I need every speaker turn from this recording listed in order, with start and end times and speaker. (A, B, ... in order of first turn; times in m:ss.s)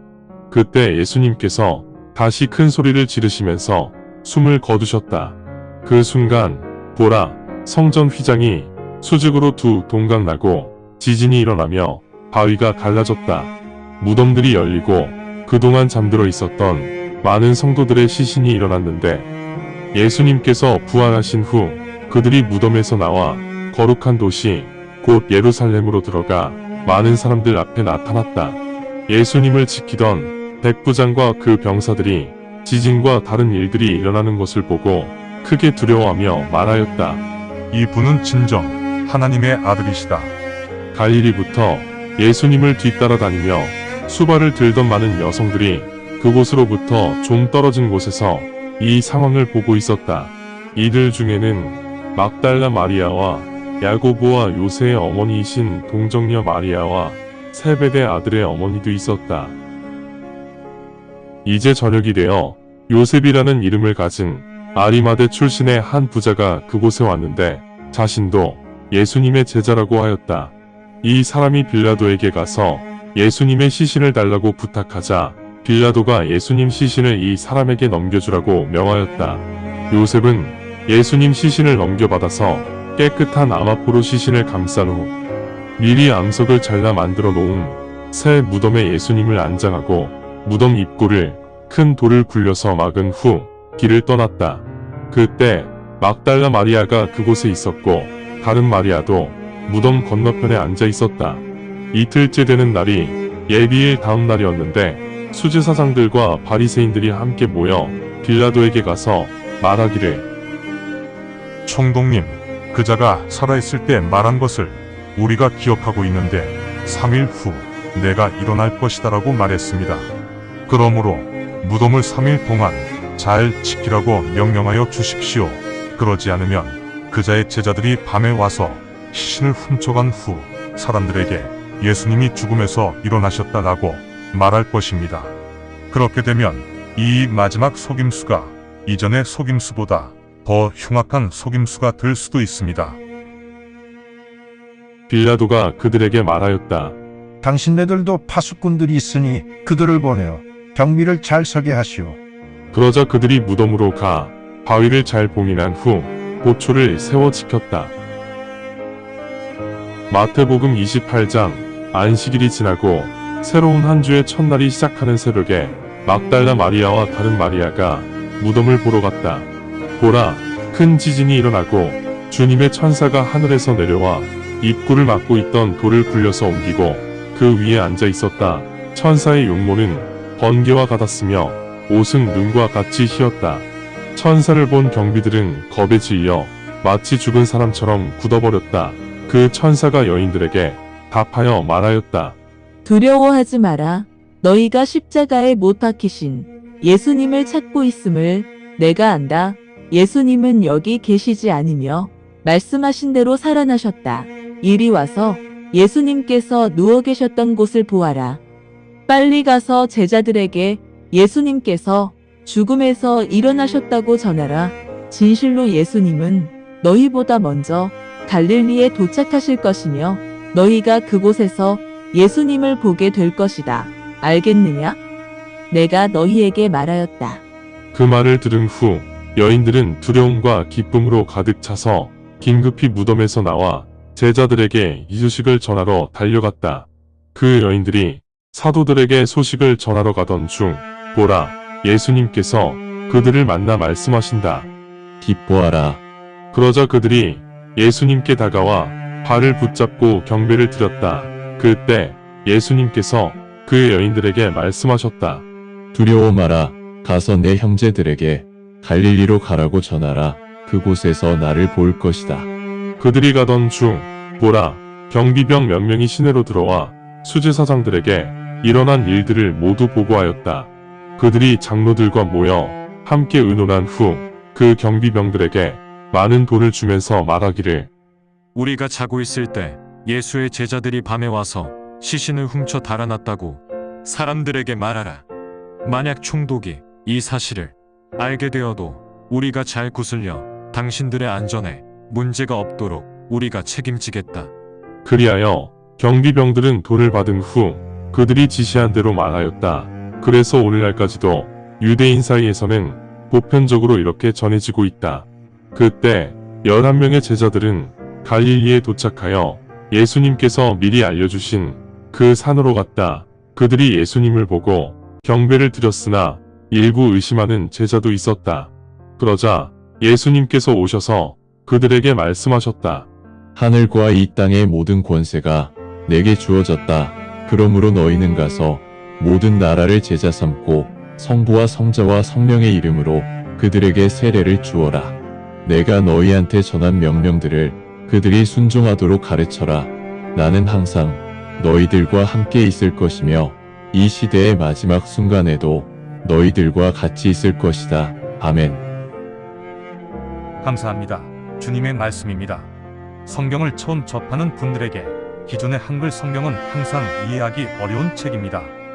0:00.5-0:19.3 A
0:19.9-0:37.2 A
0:37.7-0:40.3 B
0:40.9-0:59.6 A
1:01.4-1:25.1 A
1:25.8-1:50.3 A
1:51.6-2:00.1 B
2:00.7-2:15.3 B
2:15.9-2:23.0 B
2:25.1-2:27.0 A
2:27.4-2:32.2 C
2:32.7-2:37.9 A
2:40.1-3:12.4 A
3:12.8-3:28.4 D
3:29.1-3:45.0 D
3:45.7-3:47.4 D
3:47.9-4:04.7 A
4:05.2-4:06.0 E
4:06.5-4:15.5 A
4:15.9-4:22.5 E
4:23.0-4:37.9 A
4:38.6-4:45.2 F
4:45.8-4:54.5 F
4:55.0-5:23.1 A
5:23.6-5:48.8 E
5:50.6-5:52.7 B
5:53.3-5:58.8 B